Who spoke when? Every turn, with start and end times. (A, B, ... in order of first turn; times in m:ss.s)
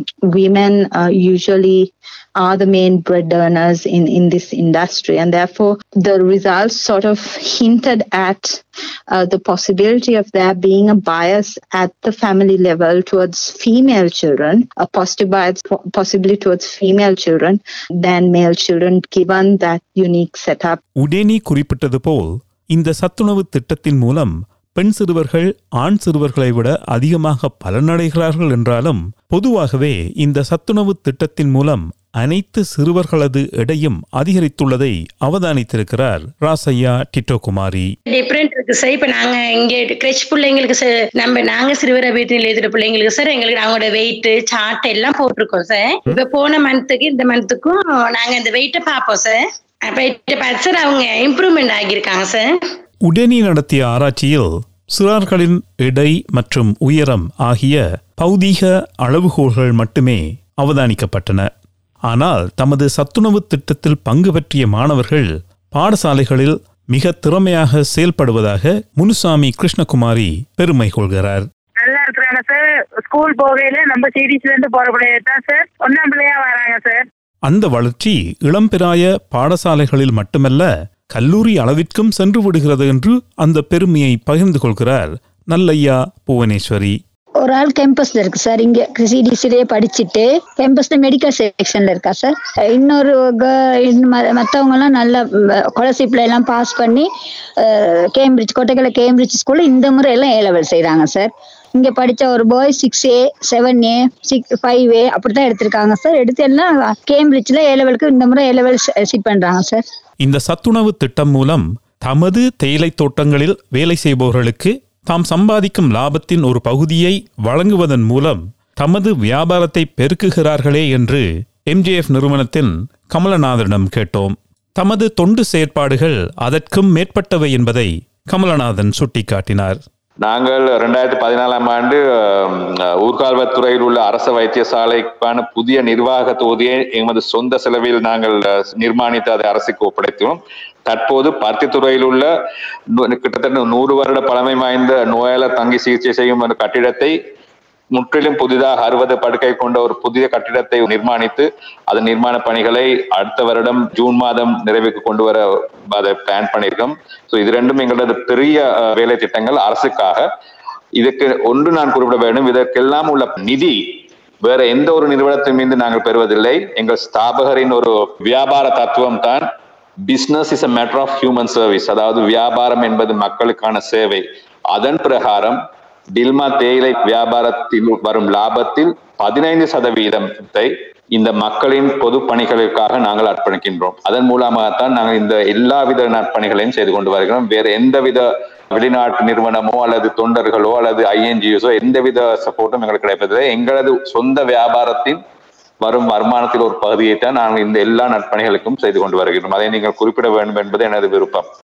0:00.2-0:20.8 A
0:21.0-0:37.9 B
0:38.1-0:52.5 C
0:53.1-1:01.5 B
1:02.1-1:11.5 B
1:11.8-1:17.1 D
1:17.5-1:27.0 B
1:27.4-1:37.1 E
1:37.6-1:49.8 E
1:50.2-2:09.8 B
2:10.2-2:22.3 F
2:23.0-2:27.2 F
2:27.9-2:40.3 F
2:41.0-2:49.5 F
2:50.1-2:55.6 F
2:56.2-3:15.2 F
3:15.8-3:21.5 F